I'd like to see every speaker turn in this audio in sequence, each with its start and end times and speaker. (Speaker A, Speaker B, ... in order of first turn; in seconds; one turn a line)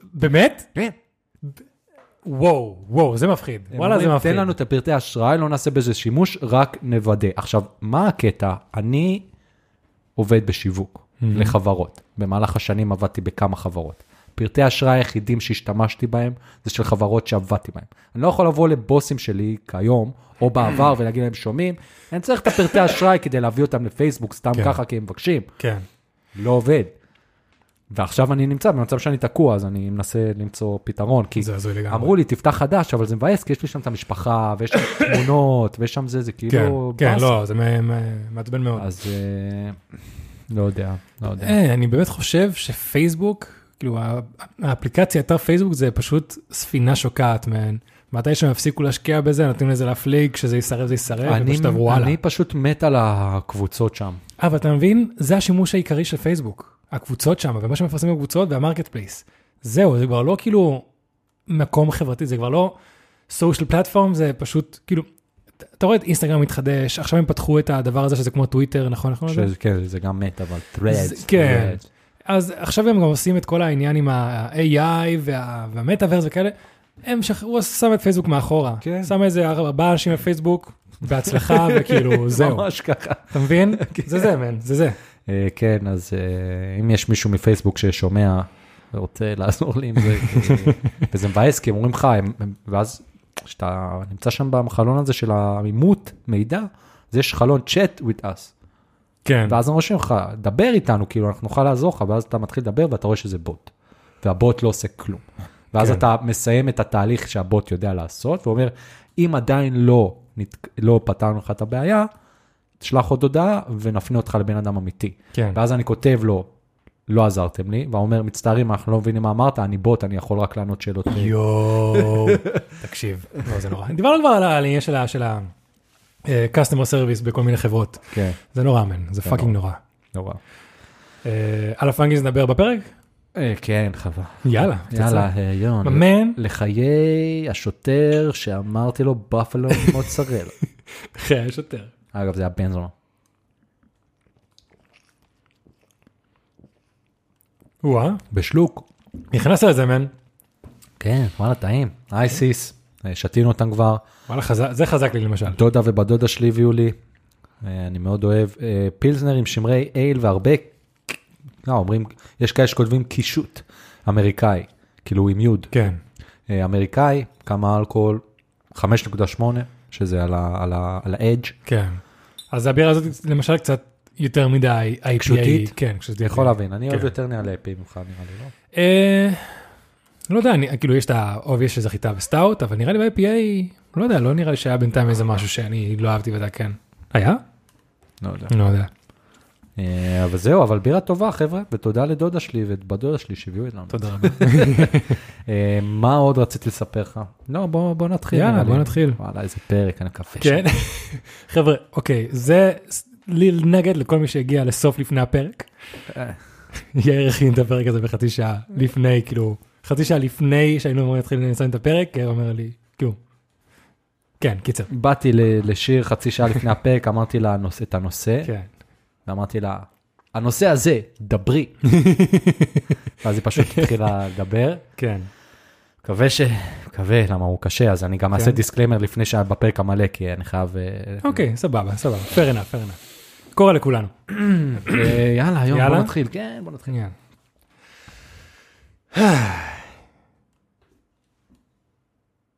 Speaker A: 0.1-0.7
Speaker A: 2.2-4.5
Speaker B: 3.7-9.3
Speaker B: 10.2-25.5
Speaker A: 11.2-11.6
Speaker A: 25.6-25.9
Speaker B: 26.4-26.9
Speaker B: 27.9-37.4
Speaker A: 31.4-32.1
Speaker A: 36.5-38.9
Speaker B: 38.8-39.8
Speaker B: 40.5-41.6
Speaker A: 41.4-52.2
Speaker B: 51.2-54.2
Speaker A: 54.4-60.9
Speaker A: 61.5-62.8
Speaker A: 63.3-65.1
Speaker A: 65.8-69.5
Speaker B: 69.3-71.8
Speaker A: 70.9-82.7
Speaker B: 78.8-79.1
Speaker B: 81.2-84.3
Speaker A: 83.3-85.0
Speaker B: 85.3-98.5
Speaker A: 90.1-91.0
Speaker A: 99.2-99.6
Speaker B: 99.5-103.7
Speaker B: 104.2-112.1
Speaker A: 105.8-106.0
Speaker B: 112.8-116.5
Speaker A: 115.3-115.6
Speaker B: 117.1-121.4
Speaker A: 121.1-125.5
Speaker B: 121.9-122.6
Speaker A: 126.2-129.8
Speaker B: 128.1-128.4
Speaker B: 129.2-129.6
Speaker B: 130.1-130.4
Speaker A: 131.2-132.9
Speaker B: 133.3-140.6
Speaker A: 134.4-135.3
Speaker A: 135.8-136.4
Speaker A: 141.1-141.9
Speaker B: 142.1-142.9
Speaker A: 147.8-148.2
Speaker B: 148.3-148.9
Speaker A: 149.3-150.1
Speaker B: 151.0-154.0
Speaker A: 154.3-155.6
Speaker B: 155.5-157.0
Speaker B: 157.6-165.7
Speaker A: 165.7-166.0
Speaker B: 166.5-168.2
Speaker B: 168.7-171.6
Speaker A: 171.7-172.0
Speaker A: 172.5-177.1
Speaker B: 175.2-178.5
Speaker A: 178.7-179.6
Speaker A: 180.3-187.4
Speaker B: 188.2-188.5
Speaker A: 188.5-188.9
Speaker B: 189.8-200.7
Speaker A: 193.9-195.2
Speaker A: 198.3-199.2
Speaker A: 200.4-205.7
Speaker B: 206.1-206.4
Speaker A: 206.9-213.2
Speaker A: 214.4-214.9
Speaker B: 214.9-218.5
Speaker A: 218.4-218.7
Speaker B: 219.3-221.8
Speaker A: 221.8-223.0
Speaker B: 223.2-224.8
Speaker A: 223.6-224.0
Speaker A: 225.0-225.3
Speaker B: 226.0-231.4
Speaker A: 228.3-228.6
Speaker A: 231.2-233.0
Speaker A: 233.6-234.2
Speaker B: 234.3-236.9
Speaker A: 234.8-235.2
Speaker A: 235.7-236.1
Speaker A: 236.9-237.2
Speaker A: 239.1-239.9